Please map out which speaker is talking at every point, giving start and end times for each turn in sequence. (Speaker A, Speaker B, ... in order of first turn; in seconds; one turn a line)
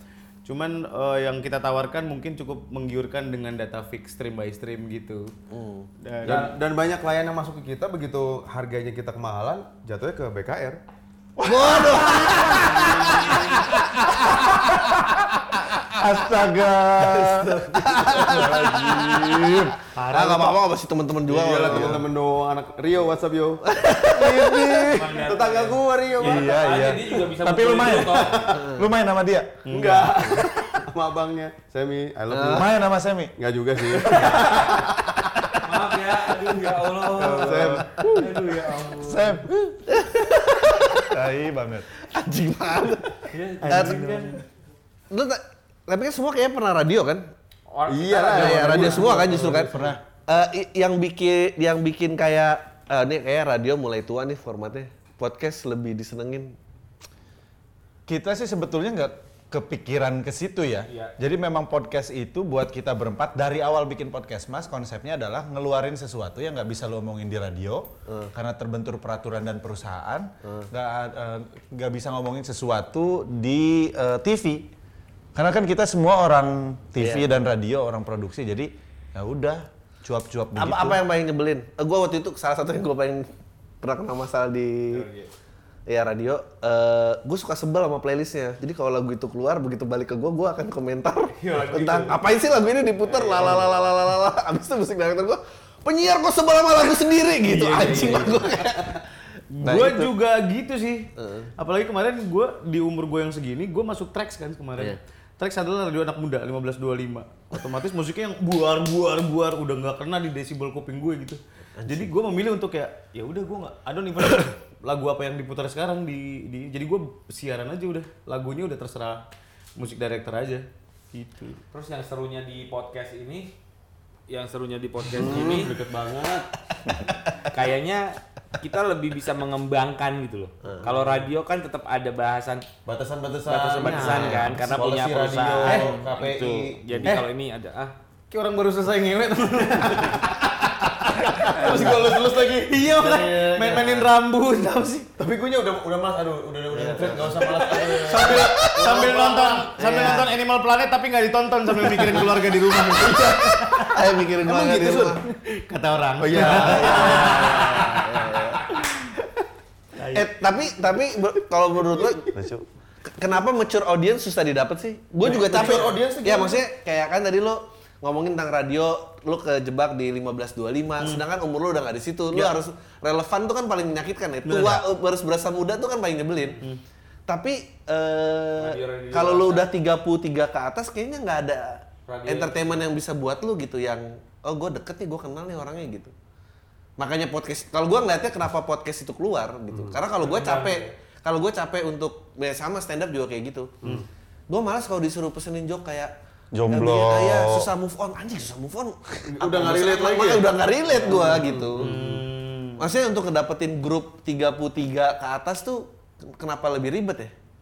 Speaker A: 0.4-5.3
Speaker B: 5.5-5.9
Speaker A: 6.0-6.5
Speaker C: 6.2-10.8
Speaker D: 11.4-13.4
Speaker B: 11.4-14.7
Speaker D: 14.1-19.8
Speaker B: 17.3-22.1
Speaker A: 19.9-20.6
Speaker C: 21.2-26.5
Speaker D: 21.7-22.0
Speaker B: 23.7-25.0
Speaker E: 24.9-28.6
Speaker D: 26.2-29.6
Speaker C: 28.1-28.6
Speaker B: 28.5-28.9
Speaker A: 29.6-30.5
Speaker C: 29.7-32.6
Speaker B: 32.3-32.7
Speaker D: 32.5-33.3
Speaker C: 33.4-34.9
Speaker E: 34.1-34.8
Speaker E: 35.6-39.4
Speaker C: 37.2-38.4
Speaker D: 39.0-39.8
Speaker B: 39.9-41.1
Speaker D: 41.0-41.9
Speaker B: 42.1-44.0
Speaker E: 43.3-44.4
Speaker A: 43.6-44.4
Speaker B: 45.1-47.3
Speaker E: 47.7-49.1
Speaker C: 47.9-49.9
Speaker B: 48.2-56.6
Speaker D: 58.1-74.7
Speaker E: 60.9-61.1
Speaker D: 75.3-81.0
Speaker B: 77.0-77.3
Speaker B: 80.6-83.3
Speaker B: 83.8-85.0
Speaker E: 84.9-85.3
Speaker B: 85.9-99.0
Speaker E: 91.3-92.2
Speaker E: 93.1-93.7
Speaker A: 97.4-98.5
Speaker A: 99.5-119.2
Speaker D: 99.6-100.0
Speaker B: 99.7-100.1
Speaker B: 101.2-101.5
Speaker B: 111.8-112.1
Speaker A: 119.8-121.6
Speaker E: 121.7-123.5
Speaker E: 124.3-125.8
Speaker C: 125.1-126.5
Speaker E: 127.5-132.7
Speaker C: 132.8-137.1
Speaker E: 133.4-137.9
Speaker A: 133.8-136.0
Speaker A: 138.3-145.1
Speaker C: 141.3-144.1
Speaker B: 144.6-145.0
Speaker C: 145.2-149.1
Speaker B: 146.7-150.3
Speaker A: 147.0-153.9
Speaker C: 153.1-153.4
Speaker B: 153.8-155.2
Speaker C: 154.4-155.2
Speaker A: 155.2-158.1
Speaker C: 156.2-157.7
Speaker B: 156.3-158.7
Speaker A: 160.0-160.3
Speaker B: 160.1-162.3
Speaker C: 162.3-162.6
Speaker B: 163.1-176.6
Speaker C: 165.2-166.6
Speaker A: 171.0-171.2
Speaker A: 174.4-174.8
Speaker B: 177.3-186.1
Speaker E: 178.6-179.7
Speaker E: 182.1-182.8
Speaker B: 187.0-193.9
Speaker C: 189.7-190.0
Speaker E: 190.2-190.9
Speaker B: 194.5-196.1
Speaker D: 196.5-197.7
Speaker B: 196.7-201.9
Speaker C: 199.3-202.2
Speaker A: 201.8-202.8
Speaker B: 202.8-207.3